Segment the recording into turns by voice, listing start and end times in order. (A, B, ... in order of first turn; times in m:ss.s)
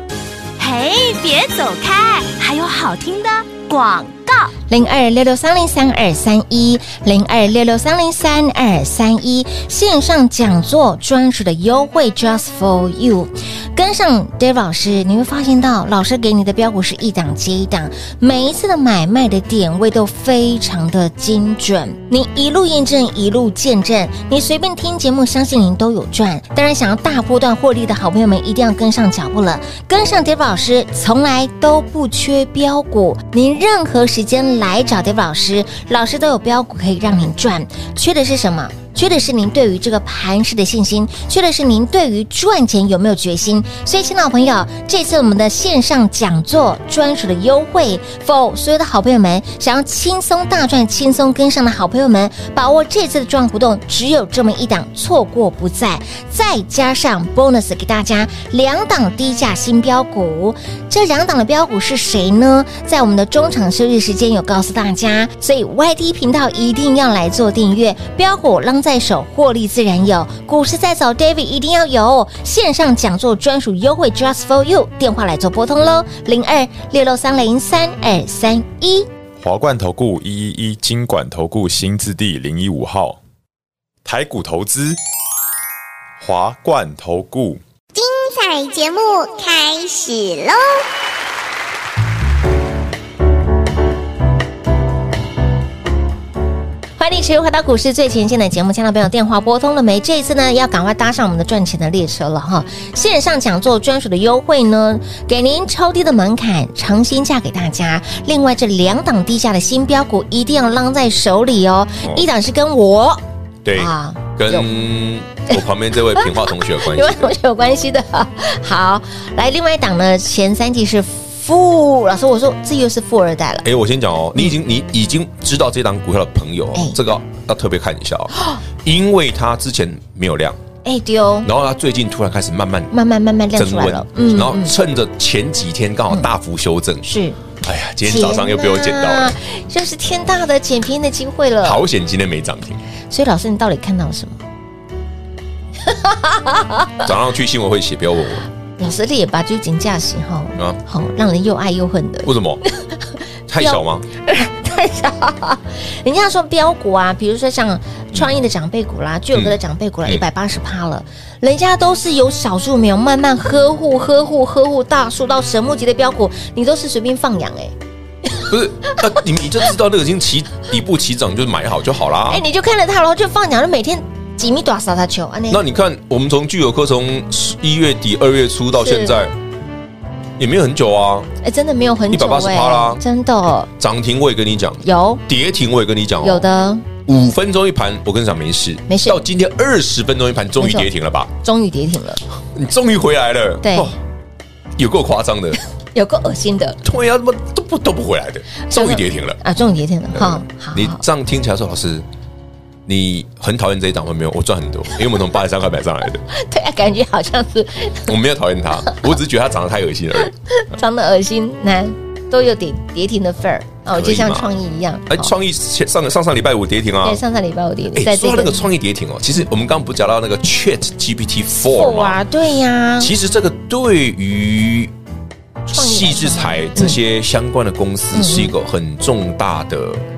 0:00.6-0:04.5 A
0:04.7-1:19.1 B
1:19.4-1:23.2 C
1:24.0-1:25.0 C
1:26.2-1:27.6 C
1:27.9-1:30.8 D
1:37.0-1:53.2 B
1:53.6-1:57.3 E
1:53.7-1:54.8 B
1:56.2-2:03.6 B
2:03.6-2:10.6 E
2:10.8-2:11.5 B
2:11.4-2:12.9 E
2:12.9-2:14.7 B
2:13.5-2:17.1 E
2:17.0-2:17.4 B
2:17.6-2:19.3 E
2:18.0-2:21.8 B
2:21.6-2:22.8 E
2:23.1-2:24.4 B
2:25.8-2:27.0 B
2:27.0-2:28.5 E
2:28.8-2:47.7 B
2:32.2-2:32.6 E
2:33.5-2:34.0 E
2:39.3-2:40.2 E
2:48.3-2:49.0 B
2:48.5-2:52.4 E
2:52.3-2:55.6 B
2:55.5-2:59.3 E
2:58.7-2:59.2 B
3:00.4-3:01.3 E
3:01.4-3:03.7 B
3:02.1-3:03.0 E
3:03.8-3:06.5 E
3:04.8-3:05.2 B
3:06.2-3:06.9 B
3:07.0-3:11.3 E
3:08.9-3:09.2 B
3:10.6-3:10.9 B
3:11.4-3:12.2 B
3:12.5-3:14.0 E
3:13.6-3:13.9 B
3:14.8-3:15.6 E
3:15.9-3:16.8 B
3:16.8-3:19.4 E
3:18.6-3:21.0 B
3:20.1-3:22.0 E
3:22.8-3:26.2 E
3:26.3-3:28.1 B
3:28.0-3:30.3 E
3:30.5-3:35.3 B
3:33.9-3:34.5 E
3:35.1-3:37.2 E
3:37.0-3:38.7 B
3:37.9-3:42.2 E
3:41.5-3:43.1 B
3:43.0-3:44.9 E
3:45.6-3:50.0 E
3:45.7-3:47.0 B
3:48.1-3:48.5 B